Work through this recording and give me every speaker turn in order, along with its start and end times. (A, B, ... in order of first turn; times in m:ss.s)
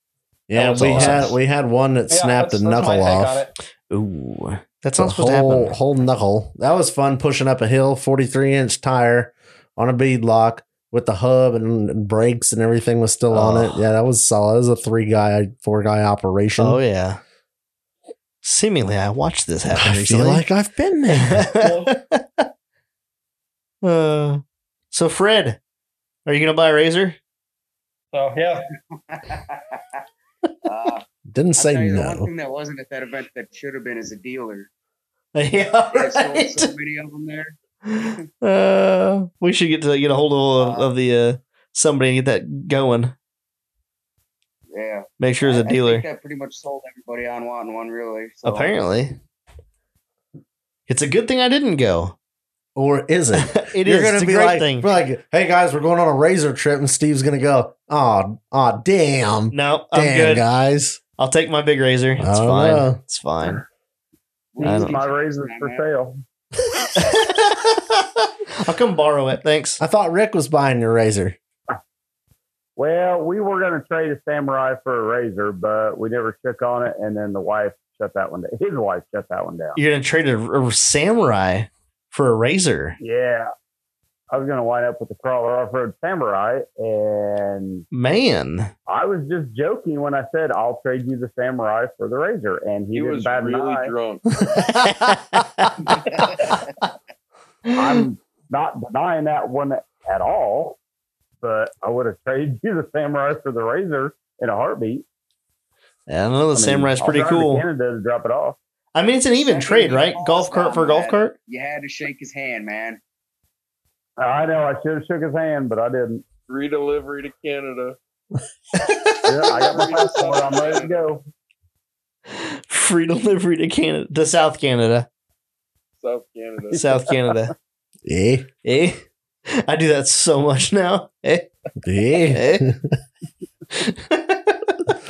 0:00.5-0:03.5 A
0:00.6-0:01.4 B
0:00.7-0:01.4 C
0:02.1-0:03.5 C
0:03.9-0:05.8 B
0:05.0-0:16.8 A
0:13.3-0:13.8 B
0:16.6-0:17.2 B
0:18.4-0:20.4 B
0:19.7-0:21.5 A
0:21.1-0:22.5 B
0:21.6-0:21.9 C
0:23.8-0:25.6 B
0:26.3-0:27.2 B
0:28.1-0:28.7 C
0:29.1-0:29.8 D
0:30.6-0:31.0 D
0:31.3-0:32.3 A
0:31.6-0:34.7 D
0:35.4-0:36.7 B
0:35.9-0:37.6 D
0:37.9-0:43.2 B
0:40.6-0:40.9 D
0:44.7-0:48.7 D
0:45.2-0:46.0 B
0:48.4-0:49.2 B
0:50.9-0:52.2 B
0:52.8-1:01.0 A
0:53.4-0:54.9 B
0:59.5-1:00.4 B
1:01.2-1:03.6 B
1:02.2-1:03.0 A
1:04.6-1:05.8 D
1:04.6-1:06.2 E
1:04.6-1:05.0 B
1:06.8-1:09.8 B
1:09.8-1:11.4 A
1:12.8-1:19.8 E
1:19.8-1:23.0 B
1:23.0-1:23.5 E
1:24.3-1:27.8 E
1:27.9-1:28.7 B
1:28.9-1:33.9 E
1:32.9-1:34.3 F
1:34.5-1:35.6 A
1:37.8-1:40.8 E
1:41.4-1:45.1 E
1:46.1-1:47.6 B
1:46.6-1:48.6 E
1:49.0-1:51.4 B
1:49.4-1:53.0 D
1:54.2-1:56.2 E
1:56.5-1:58.0 F
1:58.8-1:59.2 B
1:59.2-2:01.2 E
1:59.5-2:01.0 F
2:02.3-2:05.1 B
2:06.0-2:07.1 F
2:06.7-2:07.5 B
2:08.0-2:08.5 A
2:08.6-2:11.5 B
2:11.8-2:12.8 A
2:12.2-2:12.7 B
2:13.7-2:14.9 B